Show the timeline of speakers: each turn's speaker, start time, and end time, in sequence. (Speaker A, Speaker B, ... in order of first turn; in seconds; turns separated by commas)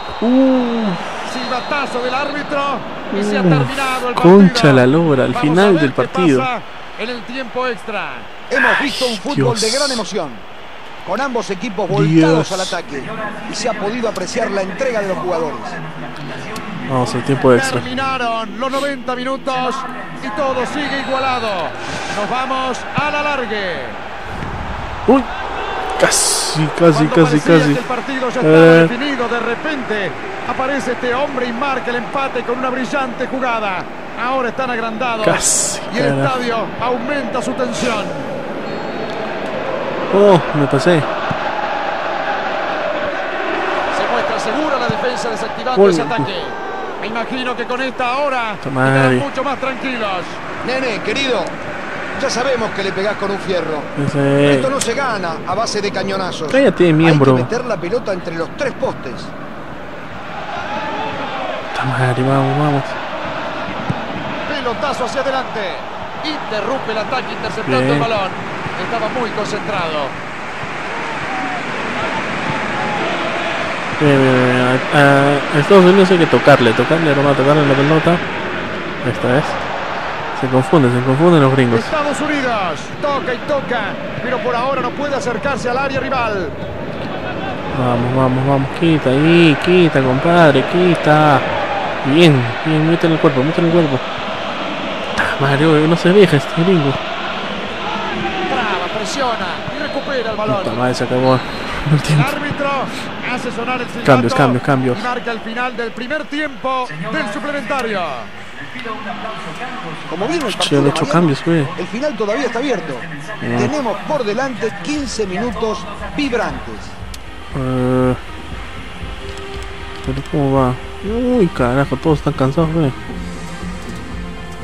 Speaker A: 0.2-1.0, Speaker B: 1.2-8.3, Speaker A: 3.1-6.5, Speaker C: 8.5-10.4, Speaker A: 8.9-10.1, Speaker C: 11.0-15.8, Speaker A: 11.9-12.8, Speaker A: 16.8-17.9, Speaker B: 17.4-24.0, Speaker A: 26.0-27.8, Speaker B: 26.9-38.3, Speaker A: 28.4-28.9, Speaker A: 35.2-36.3, Speaker A: 40.1-41.1, Speaker B: 43.9-50.4, Speaker A: 45.7-46.3, Speaker A: 48.6-49.3, Speaker C: 50.6-51.5, Speaker C: 52.1-53.9, Speaker A: 54.0-54.7, Speaker C: 54.4-59.3, Speaker A: 56.5-57.5, Speaker A: 61.7-63.0, Speaker B: 64.5-70.2, Speaker A: 67.7-68.1, Speaker A: 74.0-78.2, Speaker A: 79.0-79.6, Speaker A: 80.3-81.9, Speaker B: 81.7-86.5, Speaker A: 87.7-91.5, Speaker A: 92.0-94.0, Speaker A: 95.1-97.0, Speaker B: 98.5-100.8, Speaker A: 100.4-102.4, Speaker B: 102.1-108.3, Speaker A: 104.0-105.1, Speaker C: 110.1-117.0, Speaker A: 110.5-111.7, Speaker A: 113.4-113.8, Speaker A: 117.5-118.2, Speaker A: 120.0-122.9